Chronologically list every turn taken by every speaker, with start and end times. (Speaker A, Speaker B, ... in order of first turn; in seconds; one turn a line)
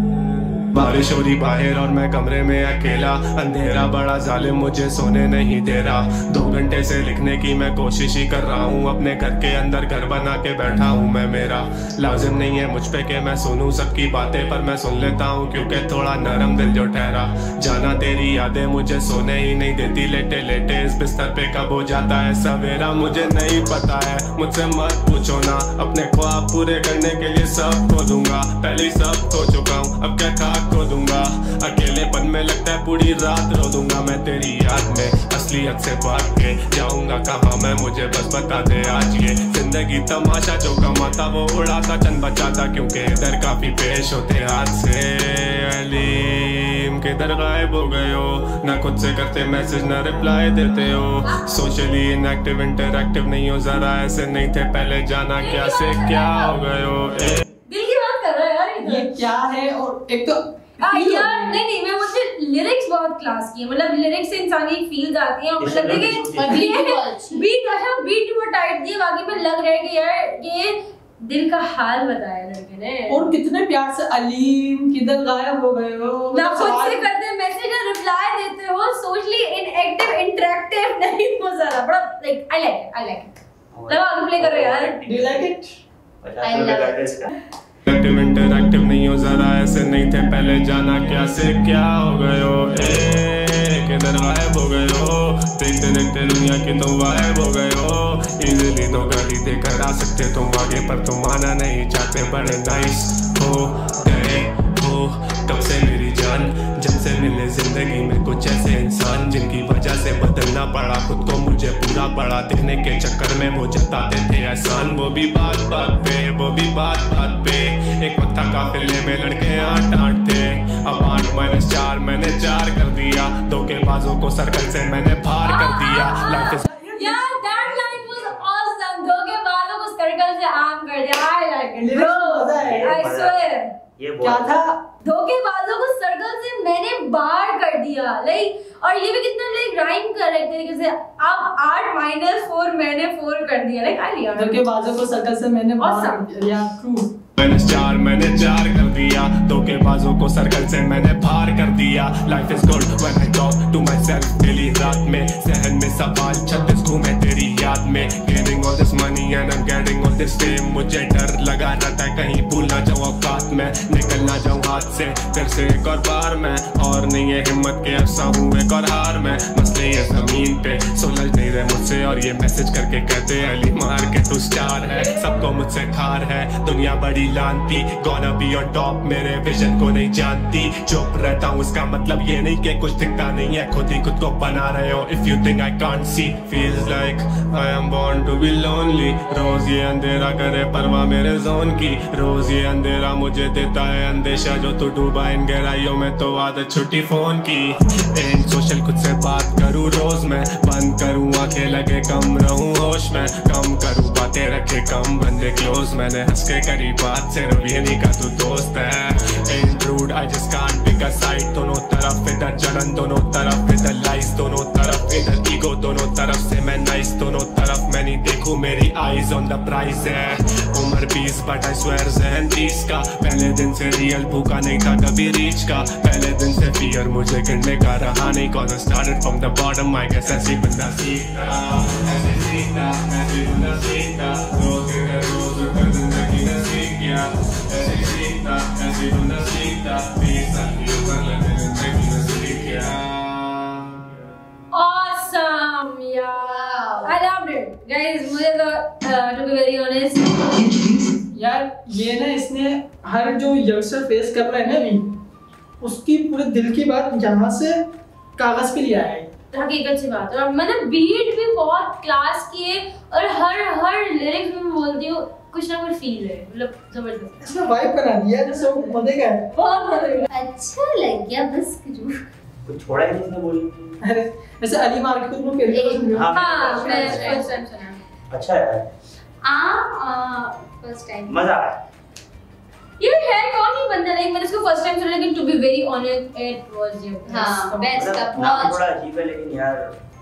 Speaker A: 0.7-57.4
Speaker B: 51.2-51.6
Speaker B: 55.4-56.6
Speaker B: 57.7-59.1
Speaker C: 58.8-61.6
Speaker B: 60.8-73.3
Speaker D: 65.6-66.6
Speaker E: 66.3-67.5
Speaker C: 73.1-77.0
Speaker B: 76.3-85.0
Speaker D: 83.7-85.4
Speaker C: 85.0-85.8
Speaker D: 86.2-87.3
Speaker E: 86.4-87.1
Speaker A: 87.8-126.7
Speaker B: 125.4-133.7
Speaker C: 126.6-127.8
Speaker D: 127.7-128.4
Speaker C: 131.7-132.9
Speaker D: 132.6-133.4
Speaker D: 134.0-134.5
Speaker C: 134.2-134.8
Speaker B: 135.0-144.7
Speaker C: 144.3-147.1
Speaker B: 145.8-146.2
Speaker A: 147.4-244.2
Speaker B: 244.7-250.7
Speaker C: 246.5-247.0
Speaker C: 251.3-255.1
Speaker C: 255.8-257.8
Speaker C: 258.4-259.3
Speaker B: 259.5-267.4
Speaker C: 267.4-269.4
Speaker B: 269.5-270.2
Speaker E: 270.3-272.2
Speaker D: 272.6-274.0
Speaker C: 274.0-276.3
Speaker E: 275.7-278.0
Speaker D: 276.1-277.4
Speaker B: 276.3-277.6
Speaker D: 278.3-278.9
Speaker E: 279.4-281.4
Speaker D: 281.3-281.8
Speaker B: 283.0-287.9
Speaker E: 287.3-288.8
Speaker D: 287.9-289.9